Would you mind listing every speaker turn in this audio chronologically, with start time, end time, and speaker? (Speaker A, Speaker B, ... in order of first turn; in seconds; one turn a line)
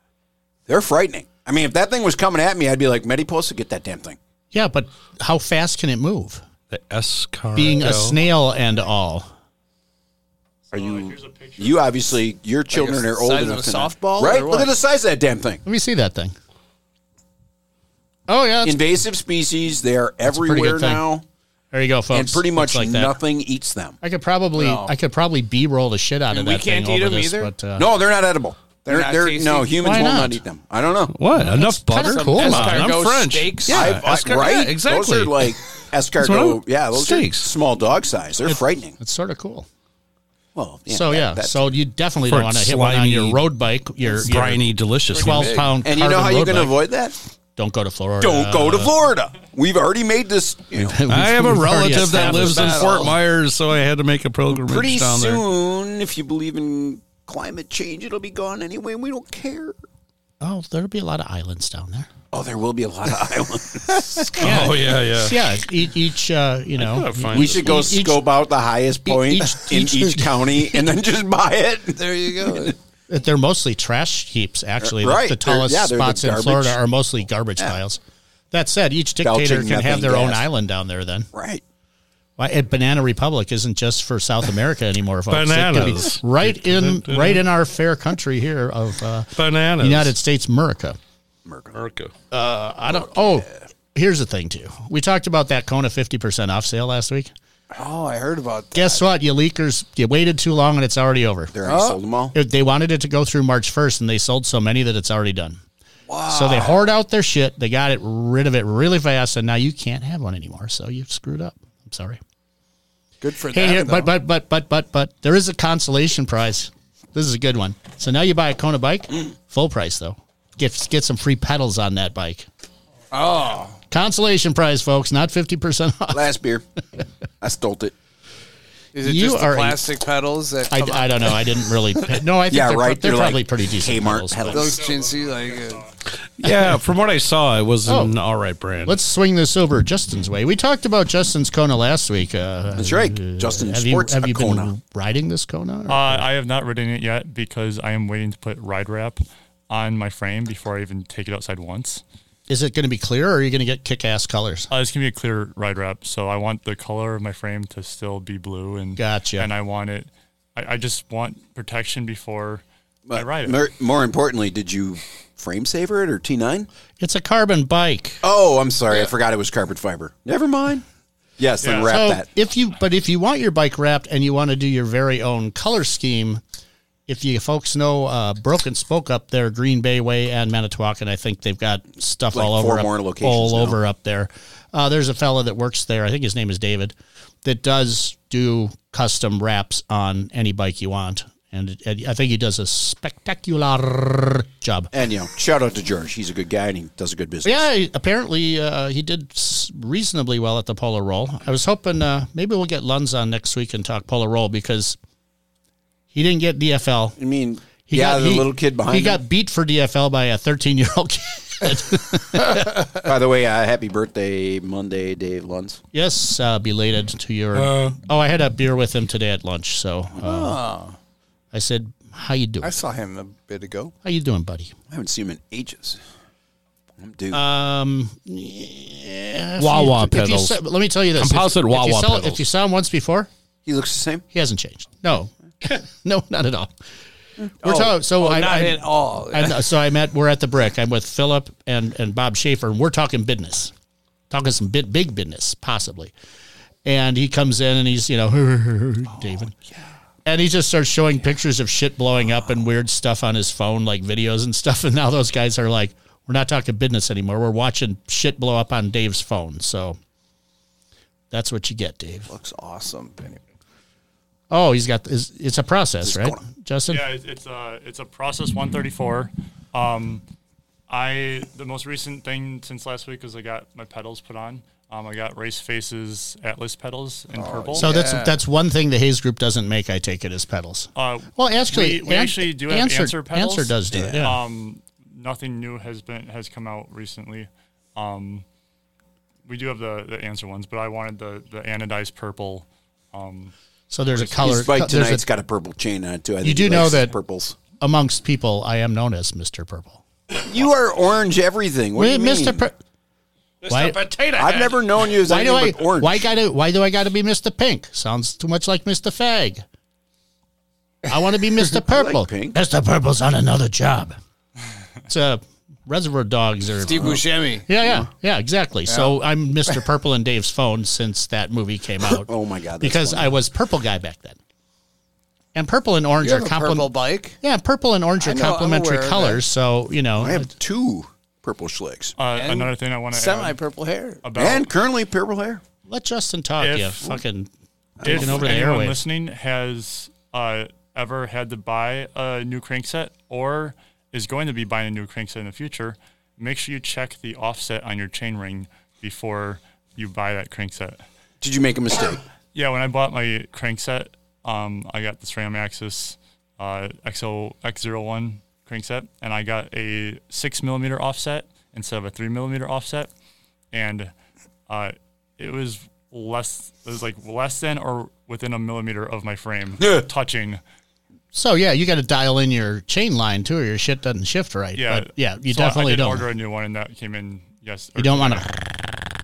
Speaker A: 0.7-4.2
Speaker B: 4.5-6.4
Speaker C: 6.7-8.2
Speaker B: 7.5-9.3
Speaker D: 10.7-11.9
Speaker A: 10.7-15.6
Speaker E: 12.7-14.7
Speaker B: 15.7-16.4
Speaker B: 18.3-18.8
Speaker A: 18.6-21.2
Speaker B: 20.3-21.0
Speaker B: 21.7-23.2
Speaker A: 22.1-24.0
Speaker B: 24.0-27.9
Speaker E: 24.6-24.9
Speaker E: 26.3-27.5
Speaker A: 27.8-31.1
Speaker E: 28.9-29.9
Speaker B: 29.8-30.4
Speaker C: 31.1-35.6
Speaker B: 31.3-33.0
Speaker E: 32.1-34.0
Speaker A: 33.7-39.0
Speaker C: 36.2-37.5
Speaker B: 38.5-39.7
Speaker A: 40.5-41.7
Speaker B: 40.9-46.8
Speaker C: 42.3-43.4
Speaker C: 44.0-45.6
Speaker E: 45.1-45.7
Speaker A: 45.8-47.2
Speaker B: 47.6-48.9
Speaker A: 48.2-51.0
Speaker B: 50.8-53.0
Speaker C: 51.0-55.4
Speaker E: 51.9-53.2
Speaker A: 54.5-59.8
Speaker B: 60.4-62.1
Speaker A: 62.3-64.6
Speaker C: 64.3-65.4
Speaker B: 64.3-68.2
Speaker C: 66.8-67.6
Speaker A: 67.3-72.7
Speaker B: 69.1-70.9
Speaker E: 72.0-72.8
Speaker B: 73.1-78.0
Speaker A: 74.8-76.8
Speaker B: 78.5-81.3
Speaker A: 79.2-80.5
Speaker A: 81.3-81.6
Speaker B: 82.4-91.0
Speaker C: 85.3-87.4
Speaker C: 89.3-90.1
Speaker A: 91.5-91.8
Speaker C: 91.7-92.1
Speaker B: 92.3-97.3
Speaker E: 97.7-99.0
Speaker B: 98.7-101.5
Speaker A: 101.5-102.4
Speaker E: 101.6-102.0
Speaker B: 102.3-105.6
Speaker E: 106.1-106.8
Speaker B: 106.3-112.2
Speaker E: 113.2-114.1
Speaker B: 113.5-122.5
Speaker E: 123.1-123.8
Speaker B: 123.9-126.3
Speaker A: 126.1-126.7
Speaker A: 127.4-127.9
Speaker E: 128.9-131.4
Speaker B: 129.0-129.9
Speaker B: 130.7-134.6
Speaker A: 132.5-134.8
Speaker E: 134.5-135.8
Speaker D: 134.6-135.8
Speaker C: 136.2-139.0
Speaker B: 136.4-136.7
Speaker B: 137.9-138.2
Speaker B: 138.8-146.2
Speaker A: 142.8-144.7
Speaker D: 145.9-152.0
Speaker B: 152.5-154.7
Speaker D: 154.7-163.6
Speaker B: 159.0-159.5
Speaker A: 163.1-166.7
Speaker B: 167.0-168.2
Speaker A: 168.2-170.8
Speaker A: 171.4-172.3
Speaker D: 171.6-172.0
Speaker B: 171.8-176.4
Speaker B: 177.1-194.9
Speaker A: 182.3-183.8
Speaker A: 194.9-197.6
Speaker B: 197.4-205.0
Speaker B: 206.1-207.2
Speaker A: 207.2-209.2
Speaker B: 207.9-212.9
Speaker A: 213.0-215.8
Speaker B: 215.9-220.6
Speaker C: 217.6-217.9
Speaker E: 220.2-221.0
Speaker B: 221.5-222.7
Speaker E: 222.6-223.9
Speaker B: 224.0-224.8
Speaker A: 224.9-226.0
Speaker A: 227.0-227.4
Speaker B: 227.3-233.3
Speaker C: 229.6-230.6
Speaker C: 231.2-232.5
Speaker A: 233.7-234.2
Speaker B: 234.3-236.7
Speaker B: 237.6-243.7
Speaker E: 237.6-239.7
Speaker B: 244.3-246.1
Speaker B: 246.8-249.5
Speaker B: 250.2-260.0
Speaker B: 261.3-262.3
Speaker E: 262.3-263.4
Speaker B: 264.5-267.1
Speaker A: 266.0-266.4
Speaker D: 266.9-270.2
Speaker D: 270.9-277.9
Speaker E: 277.3-278.4
Speaker B: 277.8-284.4
Speaker D: 280.9-288.4
Speaker A: 283.9-284.3
Speaker D: 289.5-293.5
Speaker B: 293.9-295.2
Speaker A: 294.1-297.6
Speaker B: 296.4-297.1
Speaker B: 297.8-300.0
Speaker A: 300.4-302.6
Speaker B: 302.0-302.8
Speaker C: 303.6-305.0
Speaker B: 303.7-304.0
Speaker A: 304.4-306.3
Speaker B: 305.3-309.6
Speaker B: 311.0-314.2
Speaker A: 311.9-312.6
Speaker B: 315.1-324.4
Speaker E: 316.8-317.7
Speaker E: 318.9-319.2
Speaker A: 322.2-323.4
Speaker B: 325.6-330.5
Speaker E: 326.2-327.4
Speaker E: 328.2-329.4
Speaker A: 330.2-332.1
Speaker D: 332.2-333.6
Speaker E: 332.4-334.2
Speaker D: 334.2-334.7
Speaker A: 334.4-335.6
Speaker B: 335.9-337.5
Speaker D: 336.6-337.2
Speaker A: 338.0-338.5
Speaker B: 338.0-339.0
Speaker D: 338.0-351.0
Speaker A: 351.4-352.2
Speaker D: 352.5-363.1
Speaker D: 363.7-364.1
Speaker D: 364.7-370.6
Speaker B: 371.3-376.3
Speaker D: 374.8-378.5
Speaker B: 378.0-379.0